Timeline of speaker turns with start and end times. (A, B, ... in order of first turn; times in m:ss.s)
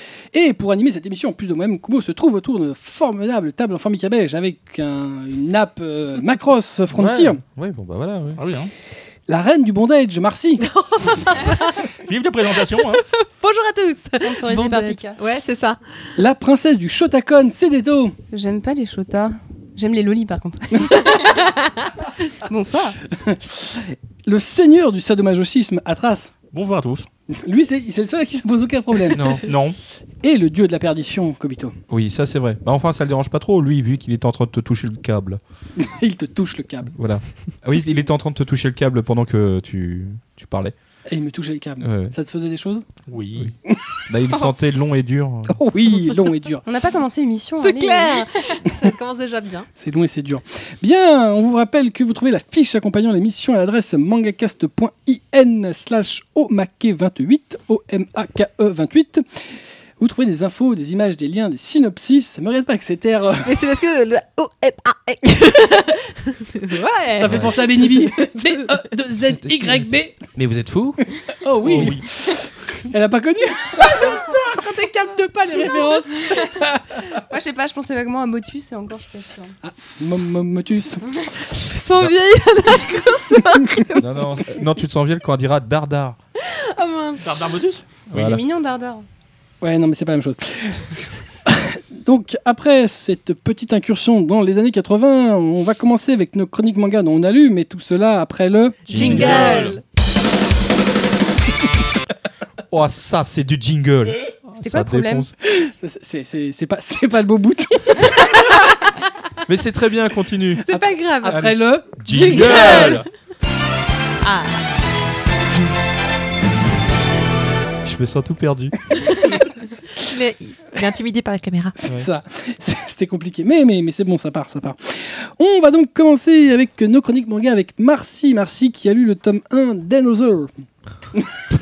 0:00.3-0:07.4 A
0:06.9-0:08.4 B
0:08.4-0:08.7 C
0:09.3-0:10.6 A
0:10.6-0:11.9 D
0:11.9-0:13.0 C
0:12.5-0:16.1 D
0:14.2-0:15.2 E
0:16.2-0:18.2 A
0:18.3-0:21.5 E
0:20.9-0:21.7 D
0:22.4-0:23.0 E
0:23.1-0:26.3 A
0:26.5-0:27.1 C
0:27.3-0:29.5 A
0:29.1-0:29.4 B
0:29.4-0:29.8 C
0:30.2-0:31.8 A
0:31.9-0:35.4 B
0:35.8-0:36.9 A
0:36.9-0:40.7 B
0:41.1-0:42.8 A
0:41.8-0:42.1 B
0:43.1-0:43.5 C
0:43.7-0:44.0 A
0:44.1-0:45.6 B
0:45.5-0:46.6 A
0:46.6-0:48.6 E
0:47.6-0:49.7 D
0:49.8-0:59.2 A
1:00.0-1:03.5 A
1:03.4-1:08.7 D
1:07.2-1:10.2 A
1:07.2-1:07.6 B
1:09.4-1:12.0 B
1:11.3-1:17.2 A
1:11.6-1:12.0 C
1:17.3-1:19.6 E
1:19.6-1:21.1 A
1:21.4-1:24.1 D
1:24.0-1:26.2 B
1:26.4-1:27.3 D
1:27.2-1:27.8 C
1:28.1-1:28.4 B
1:28.1-1:29.0 E
1:29.6-1:39.4 A
1:38.9-1:39.8 D
1:38.9-1:39.8 B
1:39.0-1:39.7 C
1:42.7-1:45.3 B
1:44.6-1:45.3 E
1:45.4-1:48.6 A
1:49.5-1:50.6 B
1:50.7-1:51.5 D
1:50.7-1:53.0 A
1:51.3-1:53.0 B
1:52.1-1:53.0 D
1:54.2-1:54.6 D
1:57.8-1:58.7 B
2:00.0-2:01.8 D
2:01.8-2:10.5 A